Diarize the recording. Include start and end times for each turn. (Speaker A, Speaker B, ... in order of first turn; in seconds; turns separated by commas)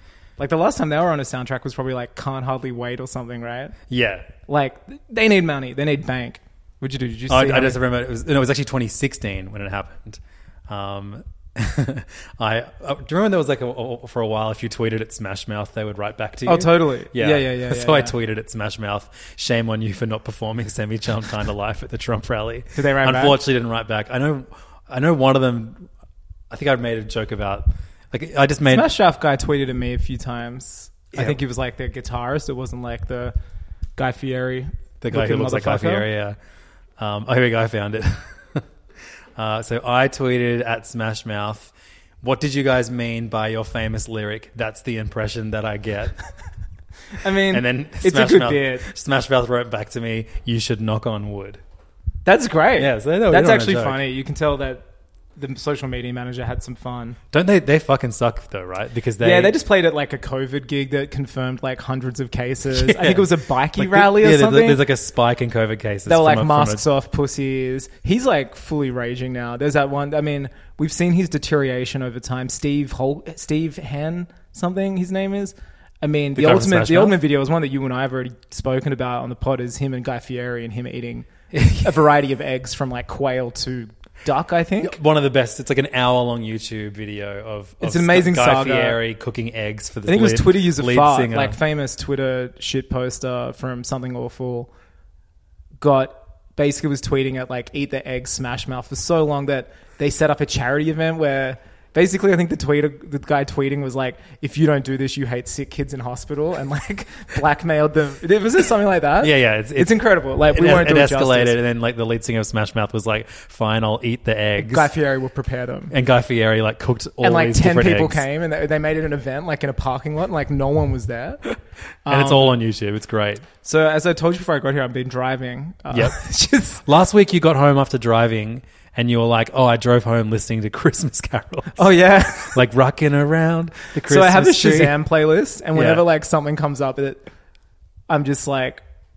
Speaker A: 0.4-3.8, Speaker B: 3.9-4.3, Speaker A: 4.5-7.8, Speaker B: 7.3-25.9, Speaker A: 16.4-18.1, Speaker A: 22.7-23.4, Speaker B: 26.5-28.9, Speaker A: 28.7-33.3, Speaker B: 31.1-31.4, Speaker A: 34.0-36.1, Speaker B: 35.0-36.4, Speaker B: 37.0-38.6, Speaker B: 39.4-46.2, Speaker A: 47.2-48.9, Speaker B: 47.5-51.6, Speaker A: 52.3-54.9, Speaker B: 52.8-54.0, Speaker A: 55.4-57.2, Speaker B: 57.3-59.6, Speaker A: 59.2-64.8, Speaker B: 62.7-66.9, Speaker A: 66.1-85.0, Speaker B: 76.4-77.2, Speaker B: 81.5-81.9, Speaker B: 84.8-91.6, Speaker A: 87.8-89.0, Speaker A: 90.1-94.7, Speaker A: 95.8-111.6, Speaker B: 109.2-114.9, Speaker A: 114.6-115.9, Speaker B: 115.9-118.3, Speaker A: 117.2-121.4, Speaker A: 122.0-122.6, Speaker B: 122.1-123.5, Speaker A: 123.6-126.8, Speaker B: 125.9-126.3, Speaker B: 126.8-135.0, Speaker A: 131.8-132.6, Speaker A: 134.1-137.3, Speaker B: 135.8-136.0, Speaker A: 138.1-138.8